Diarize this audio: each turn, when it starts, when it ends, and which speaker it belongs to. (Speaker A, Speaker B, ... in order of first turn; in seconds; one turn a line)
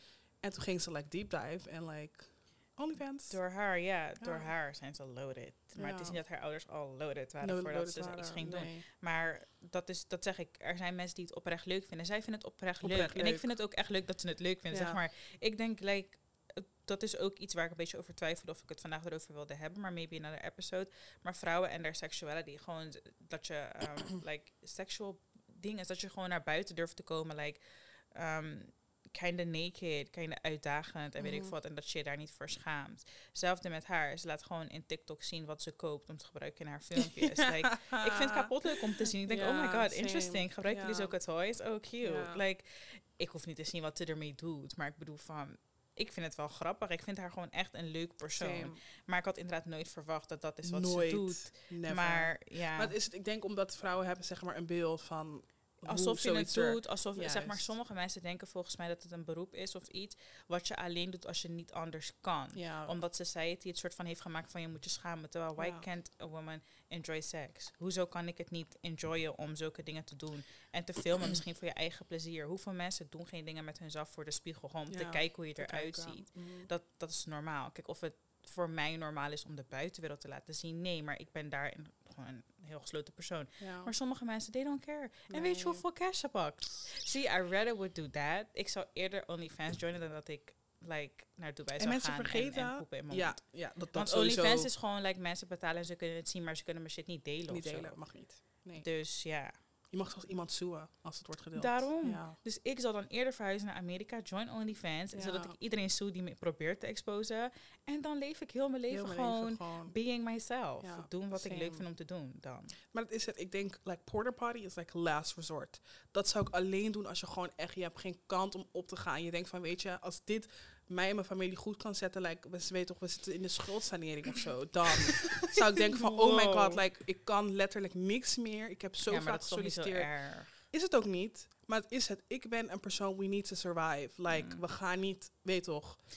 Speaker A: 0.4-3.4
Speaker B: 3.3-52.9
Speaker A: 4.2-4.5
Speaker A: 5.8-6.2
Speaker A: 7.4-8.8
Speaker A: 12.8-13.5
Speaker A: 14.7-15.0
Speaker A: 31.2-31.5
Speaker A: 37.0-41.1
Speaker A: 42.0-42.4
Speaker A: 48.3-48.8
Speaker A: 50.6-57.7
Speaker B: 55.9-93.4
Speaker A: 62.5-63.0
Speaker A: 65.6-65.8
Speaker A: 74.9-76.7
Speaker A: 83.6-83.9
Speaker A: 85.3-85.8
Speaker A: 91.8-94.7
Speaker B: 93.9-98.0
Speaker A: 97.5-98.9
Speaker B: 98.8-99.5
Speaker A: 99.9-102.4
Speaker B: 101.6-112.8
Speaker A: 105.1-105.5
Speaker A: 108.9-110.0
Speaker A: 110.8-111.8
Speaker A: 112.9-136.0
Speaker B: 125.2-126.8
Speaker B: 129.1-130.6
Speaker B: 134.3-134.6